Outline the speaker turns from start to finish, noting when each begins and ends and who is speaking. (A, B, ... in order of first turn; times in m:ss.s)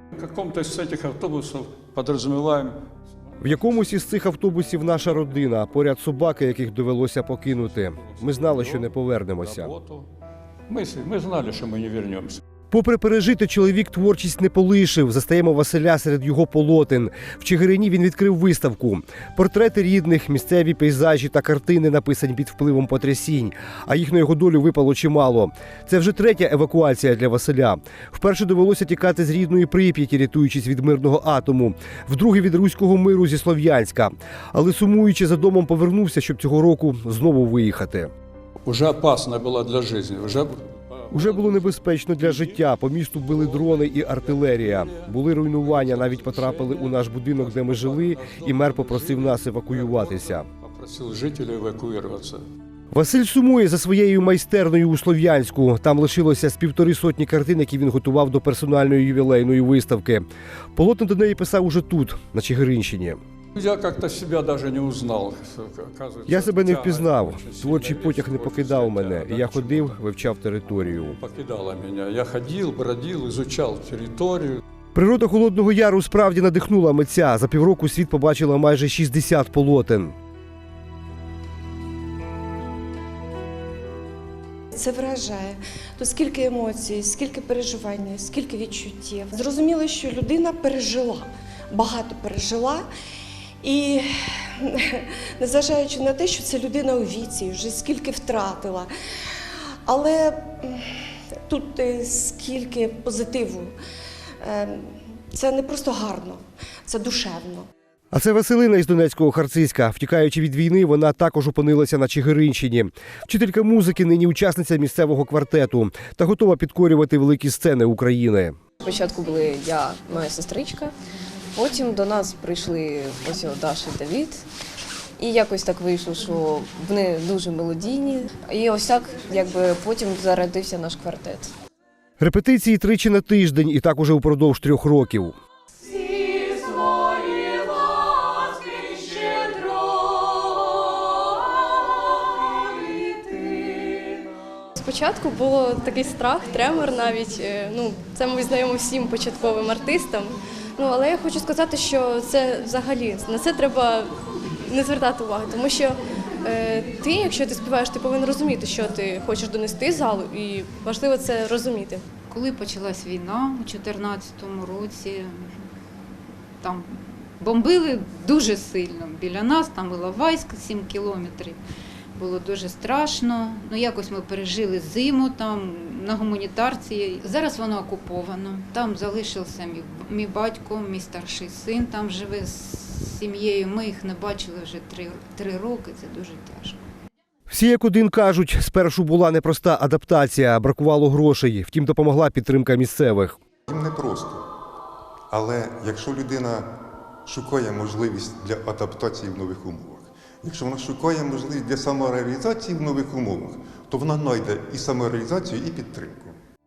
0:00.1-0:02.8 A
0:03.4-0:09.7 B
0:07.7-0:10.0 A
0:10.7-0:12.4 A
0:12.7-0:38.1 B
0:38.6-0:42.6 A
0:41.1-0:50.5 B
0:43.2-0:52.4 A
0:52.9-1:03.2 B
1:03.5-1:10.0 A
1:06.3-1:11.2 B
1:10.8-1:14.6 A
1:14.9-1:20.1 B
1:24.7-1:32.8 C
1:33.6-1:38.9 C
1:39.8-1:43.7 C
1:44.4-1:47.7 C
1:48.1-1:58.6 B
1:58.8-2:00.9 D
2:01.5-2:04.4 D
2:05.2-2:11.5 D
2:12.2-2:15.3 B
2:15.9-2:24.1 E
2:24.8-2:34.1 E
2:34.6-2:42.0 E
2:42.3-2:45.5 F
2:46.6-2:51.6 F
2:52.2-3:06.8 F
3:07.5-3:13.4 B
3:13.7-3:14.4 G
3:15.3-3:16.7 G
3:17.2-3:26.3 G